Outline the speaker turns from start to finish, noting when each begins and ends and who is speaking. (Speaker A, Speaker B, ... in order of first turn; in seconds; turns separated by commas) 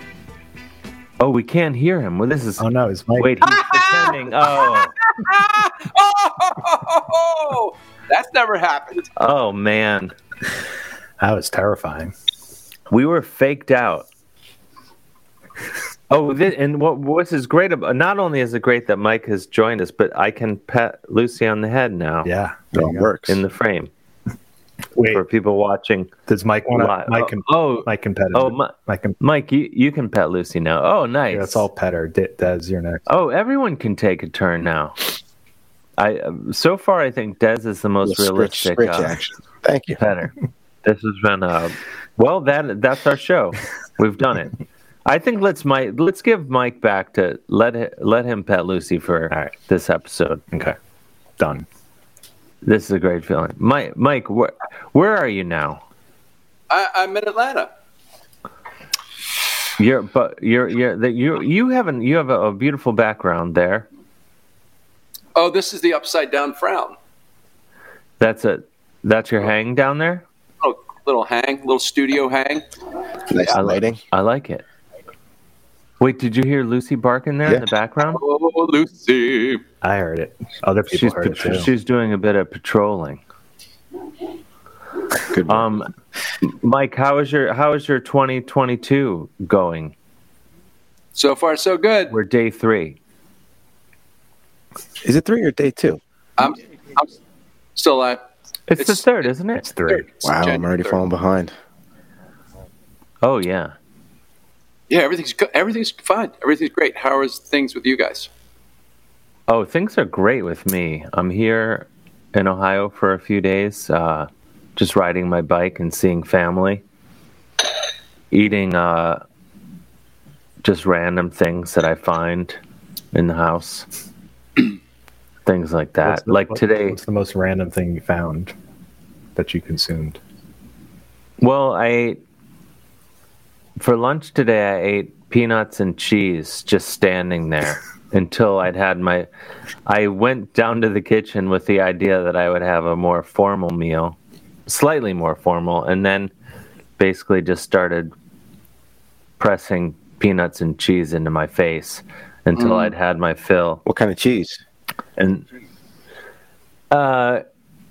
Speaker A: 1.2-2.6, Speaker B: 2.6-3.9, Speaker A: 3.2-5.0, Speaker C: 5.2-9.1, Speaker A: 9.2-10.1, Speaker B: 11.2-12.1, Speaker A: 12.9-14.1, Speaker A: 16.1-22.3, Speaker B: 22.2-23.1, Speaker D: 22.7-23.4, Speaker A: 23.3-23.9, Speaker B: 24.9-25.2, Speaker A: 25.1-26.1, Speaker B: 26.3-29.2, Speaker A: 26.7-31.6, Speaker B: 31.3-33.0, Speaker A: 33.1-35.0, Speaker A: 36.0-39.2, Speaker D: 38.0-40.0, Speaker A: 39.9-44.5, Speaker A: 45.0-50.4, Speaker B: 51.4-51.6, Speaker A: 52.6-55.8, Speaker C: 56.7-57.7, Speaker A: 59.8-63.9, Speaker C: 65.3-67.0, Speaker A: 68.2-70.2, Speaker C: 70.6-72.6, Speaker D: 73.3-74.0, Speaker A: 73.5-74.6, Speaker A: 76.0-78.2, Speaker C: 78.1-79.6, Speaker B: 79.8-81.7, Speaker A: 80.9-83.2, Speaker D: 85.3-85.7, Speaker A: 85.5-85.9, Speaker A: 86.4-89.9, Speaker C: 91.1-92.1, Speaker A: 92.1-93.0, Speaker D: 95.0-96.0, Speaker C: 96.4-97.1, Speaker C: 97.8-98.2, Speaker A: 98.7-99.7, Speaker C: 98.8-99.3, Speaker B: 99.5-100.1, Speaker C: 99.9-101.0, Speaker D: 100.2-101.5, Speaker A: 103.2-103.7, Speaker C: 104.9-108.3, Speaker A: 109.5-116.8, Speaker A: 118.3-119.2, Speaker A: 120.6-122.6, Speaker A: 123.1-123.9, Speaker A: 125.5-127.0, Speaker B: 126.0-128.5, Speaker B: 129.3-130.2, Speaker A: 131.4-132.2, Speaker A: 133.8-139.3, Speaker A: 139.8-146.3, Speaker A: 147.0-148.1, Speaker A: 149.4-153.8, Speaker C: 152.6-152.9, Speaker D: 153.8-154.6, Speaker A: 155.2-155.4, Speaker A: 156.9-157.4